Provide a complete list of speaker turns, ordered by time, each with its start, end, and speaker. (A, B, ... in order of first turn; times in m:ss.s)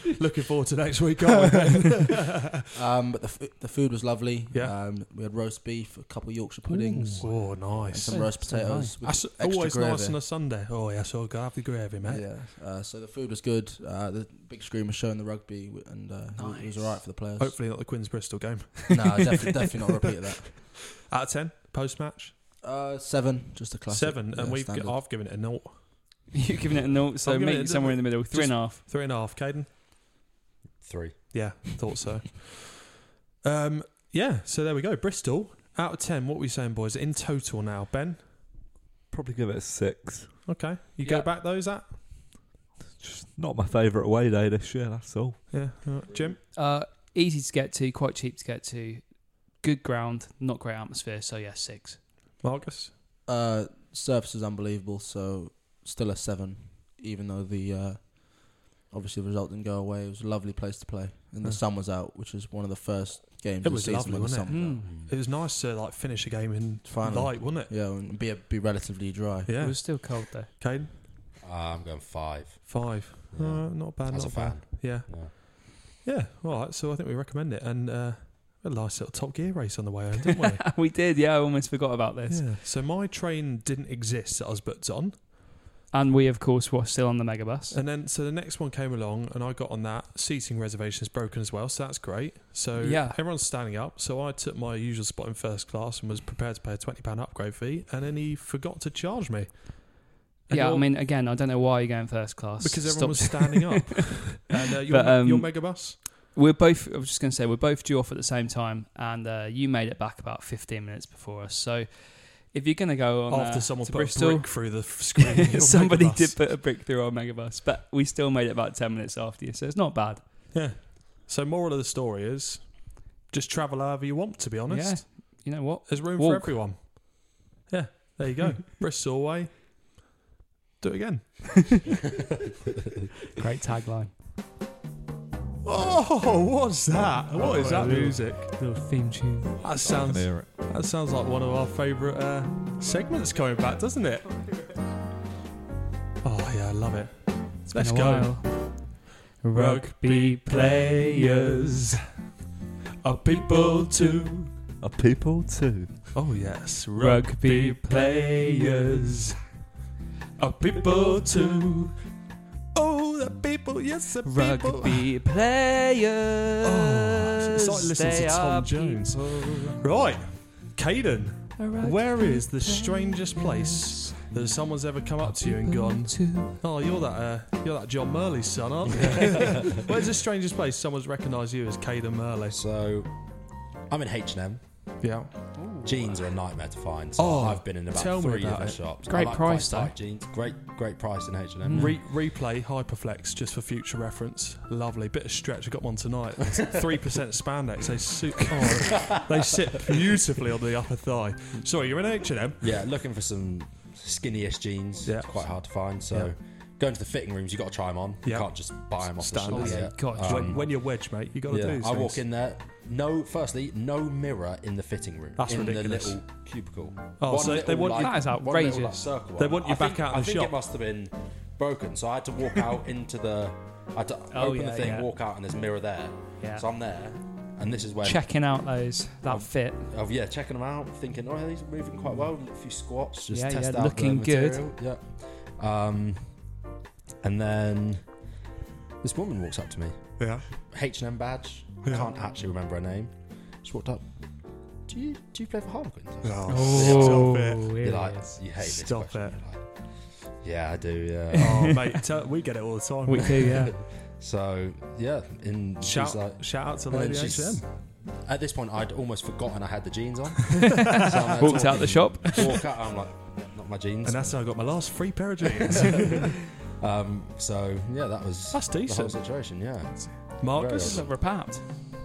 0:00.1-0:02.5 A
0:02.7-0:10.2 B
0:04.5-0:04.8 A
0:06.7-0:08.4 A
0:08.0-0:09.0 C
0:09.0-0:12.3 A
0:12.0-0:17.6 B
0:16.3-0:17.0 C
0:17.4-0:22.4 A
0:18.9-0:20.5 B
0:22.6-0:25.0 B
0:23.9-0:25.8 A
0:26.3-0:28.8 C
0:27.2-0:29.7 A
0:30.8-0:31.3 D
0:31.3-0:32.9 A
0:33.4-0:38.2 A
0:39.1-0:40.4 E
0:40.4-0:42.0 A
0:41.0-0:41.3 C
0:43.0-0:45.5 E
0:45.5-0:46.4 A
0:46.5-0:52.0 C
0:52.4-0:52.9 A
0:53.3-1:04.8 B
1:03.6-1:07.7 A
1:04.4-1:04.9 C
1:04.7-1:05.1 D
1:06.8-1:09.5 B
1:09.5-1:10.9 A
1:09.6-1:10.5 C
1:11.4-1:15.3 D
1:12.6-1:20.7 A
1:20.3-1:22.5 C
1:22.3-1:25.2 A
1:25.9-1:27.8 C
1:27.7-1:40.9 A
1:32.8-1:33.2 C
1:40.5-2:00.2 C
1:42.6-1:46.0 A
1:53.3-1:56.4 A
2:00.5-2:09.8 A
2:04.7-2:06.7 C
2:10.8-2:11.8 A
2:13.3-2:14.1 C
2:15.6-2:18.6 A
2:17.3-2:19.6 C
2:19.6-2:24.4 A
2:19.8-2:20.5 E
2:26.2-2:29.0 A
2:27.7-2:32.0 C
2:29.5-2:32.0 A
2:33.0-2:34.4 A
2:33.3-2:34.5 C
2:34.8-2:36.0 E
2:36.1-2:39.3 A
2:37.0-2:39.4 C
2:40.4-2:41.9 C
2:40.4-2:41.8 A
2:42.7-2:45.1 A
2:44.2-2:49.8 C
2:46.6-3:02.6 A
2:51.6-2:54.2 C
2:54.3-2:54.6 D
2:55.2-2:56.6 C
2:59.2-2:59.8 D
3:02.5-3:04.6 D
3:05.0-3:05.3 A
3:05.5-3:06.3 C
3:05.8-3:12.0 D
3:07.2-3:08.8 A
3:09.1-3:10.0 C
3:11.6-3:12.0 C
3:11.7-3:22.7 A
3:22.6-3:48.3 D
3:25.0-3:26.3 A
3:28.2-3:32.2 A
3:29.5-3:30.6 C
3:35.4-3:36.3 A
3:37.2-3:38.3 A
3:38.0-3:39.1 C
3:39.4-3:40.6 A
3:44.3-3:45.1 C
3:46.4-3:46.6 C
3:48.0-3:49.9 C
3:49.3-3:56.6 D
3:53.3-3:54.6 C
3:57.2-3:58.4 D
3:59.0-4:11.8 D
4:00.2-4:00.5 A
4:01.8-4:02.1 A
4:06.2-4:07.7 A
4:06.5-4:08.4 C
4:08.6-4:09.6 A
4:11.3-4:12.0 C
4:11.4-4:13.5 A
4:13.1-4:13.8 C
4:13.8-4:24.5 D
4:15.8-4:17.7 A
4:20.9-4:22.7 C
4:21.4-4:22.4 A
4:24.0-4:26.2 A
4:25.9-4:31.1 D
4:28.5-4:29.2 A
4:30.0-4:31.7 C
4:30.4-4:31.0 A